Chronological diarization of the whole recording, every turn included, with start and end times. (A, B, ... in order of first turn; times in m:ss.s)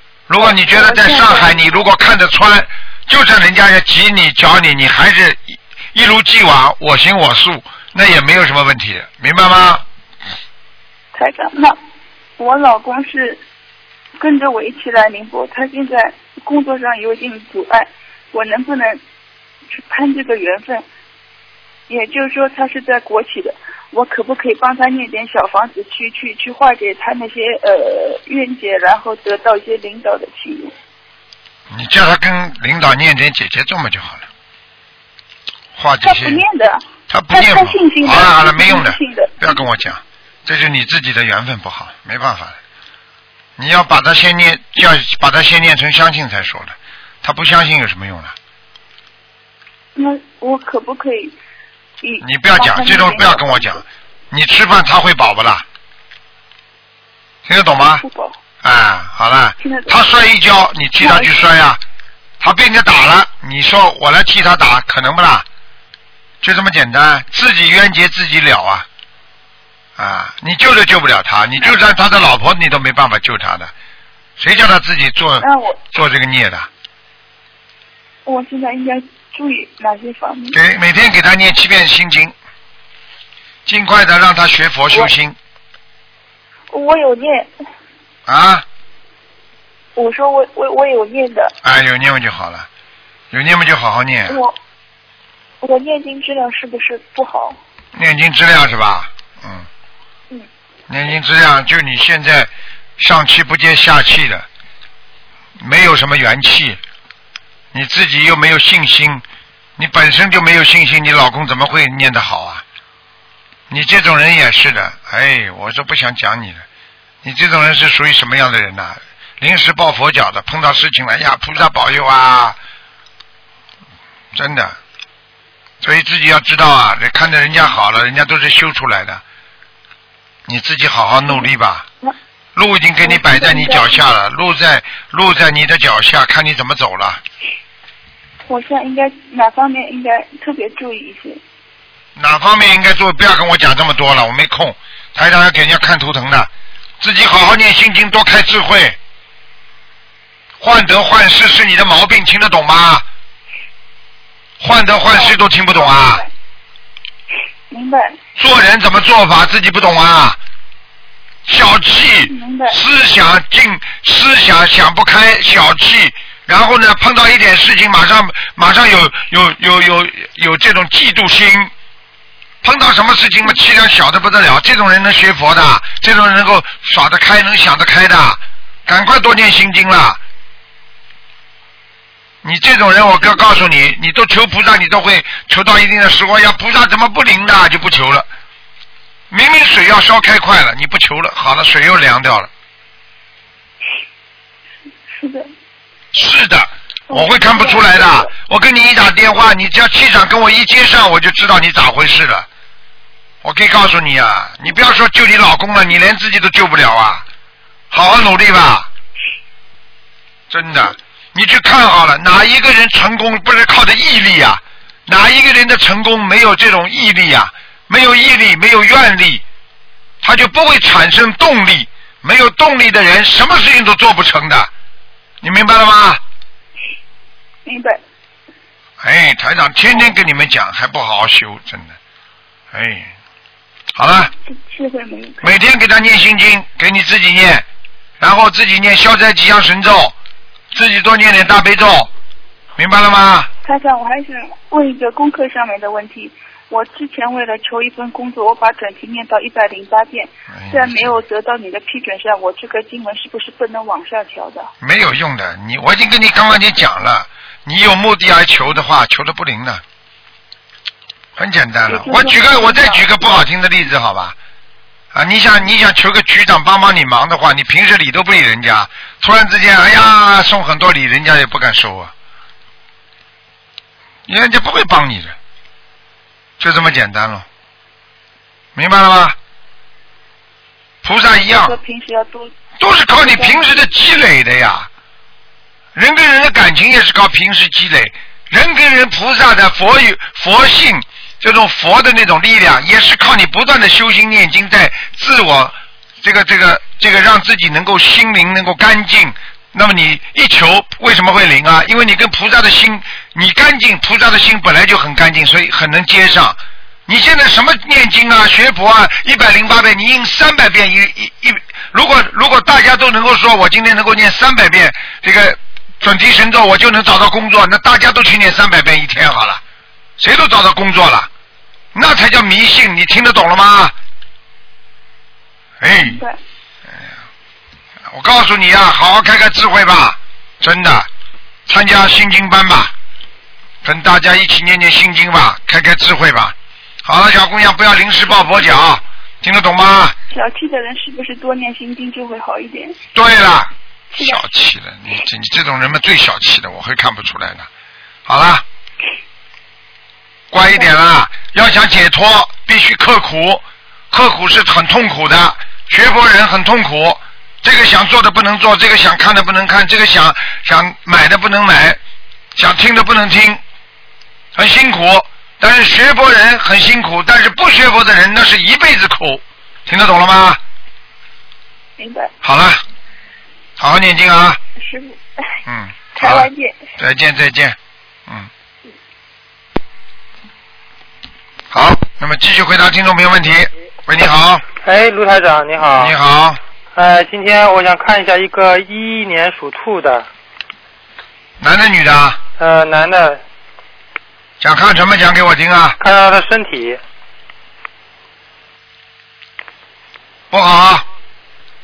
0:00.3-0:09.8 A
0:00.4-0:01.6 B
0:11.1-0:11.8 B
0:12.4-0:13.4 B
0:14.2-0:19.0 B
0:19.7-0:20.8 B
0:21.9-0:30.7 B
0:31.7-0:34.3 A
0:35.8-0:36.4 A
0:36.0-0:39.5 B
0:37.1-0:42.6 A
0:43.6-0:48.3 A
0:49.9-0:51.4 B
0:52.0-0:53.8 B
0:52.2-0:55.6 A
0:57.4-0:58.0 A
0:58.0-0:58.4 B
0:58.6-1:01.8 A
0:59.6-1:00.0 B
1:01.0-1:01.4 B
1:02.4-1:05.4 A
1:06.4-1:08.8 A
1:10.0-1:13.7 A
1:14.4-1:16.7 A
1:15.4-1:15.8 B
1:18.2-1:20.6 B
1:20.5-1:22.3 A
1:23.6-1:25.4 A
1:26.7-1:27.5 B
1:28.3-1:28.6 A
1:30.0-1:31.5 B
1:31.6-1:32.7 A
1:33.3-1:34.4 A
1:34.3-1:34.5 B
1:35.6-1:37.6 B
1:37.9-1:39.7 A
1:40.9-1:44.4 A
1:45.6-1:46.8 A
1:47.7-1:49.2 A
1:49.8-1:52.6 A
1:53.7-1:56.6 A
1:57.2-2:02.6 A
2:04.3-2:04.8 A
2:05.8-2:09.2 A
2:10.5-2:11.9 A
2:12.6-2:17.2 A
2:13.0-2:14.0 B
2:18.4-2:21.4 B
2:22.2-2:26.5 A
2:27.0-2:29.0 A
2:30.6-2:33.0 A
2:34.6-2:36.2 A
2:35.1-2:36.3 B
2:37.7-2:38.2 B
2:38.4-2:40.4 A
2:41.4-2:51.7 A
2:42.3-2:42.8 B
2:52.6-3:00.2 A
3:02.4-3:08.3 A
3:09.3-3:12.5 A
3:15.1-3:15.5 B
3:16.1-3:22.4 A
3:17.1-3:18.3 B
3:23.4-3:27.2 A
3:27.9-3:28.9 A
3:30.5-3:39.4 A
3:40.2-3:44.7 A
3:45.4-3:46.2 A
3:47.6-3:48.0 B
3:49.0-3:52.0 A
3:52.7-3:53.1 A
3:54.0-3:54.3 A
3:54.5-3:55.5 B
3:55.4-3:57.6 A
3:58.2-4:00.1 A
4:00.7-4:02.1 A
4:02.8-4:03.5 A
4:03.6-4:14.7 B
4:10.5-4:11.2 A
4:14.8-4:19.8 A
4:21.4-4:24.3 A
4:21.9-4:23.0 B
4:25.1-4:32.1 A
4:34.3-4:35.3 A
4:36.6-4:37.4 A
4:38.7-4:39.4 A
4:41.0-4:41.8 A
4:41.4-4:42.5 B
4:42.8-4:44.9 A
4:43.2-4:43.7 B
4:45.9-5:19.6 A
5:20.2-5:21.3 A
5:21.9-5:23.9 A
5:25.8-5:26.2 A
5:25.9-5:26.4 B
5:28.1-5:31.1 A
5:31.7-5:32.9 A
5:33.8-5:40.2 A
5:40.3-5:43.0 B
5:43.1-5:47.7 A
5:44.1-5:44.5 B
5:48.3-5:48.6 A
5:50.5-6:02.0 A
6:02.6-6:03.6 A
6:04.5-6:10.6 A
6:12.0-6:12.3 B
6:12.4-6:12.8 A
6:13.8-6:14.6 A
6:14.8-6:15.2 B
6:15.6-6:18.5 A
6:16.1-6:16.8 B
6:21.7-6:24.6 A
6:24.8-6:26.2 C
6:26.0-6:26.6 A
6:26.9-6:30.3 C
6:31.6-6:32.4 A
6:32.6-6:33.4 C
6:34.6-6:36.0 A
6:36.0-6:37.0 C
6:40.5-6:41.0 A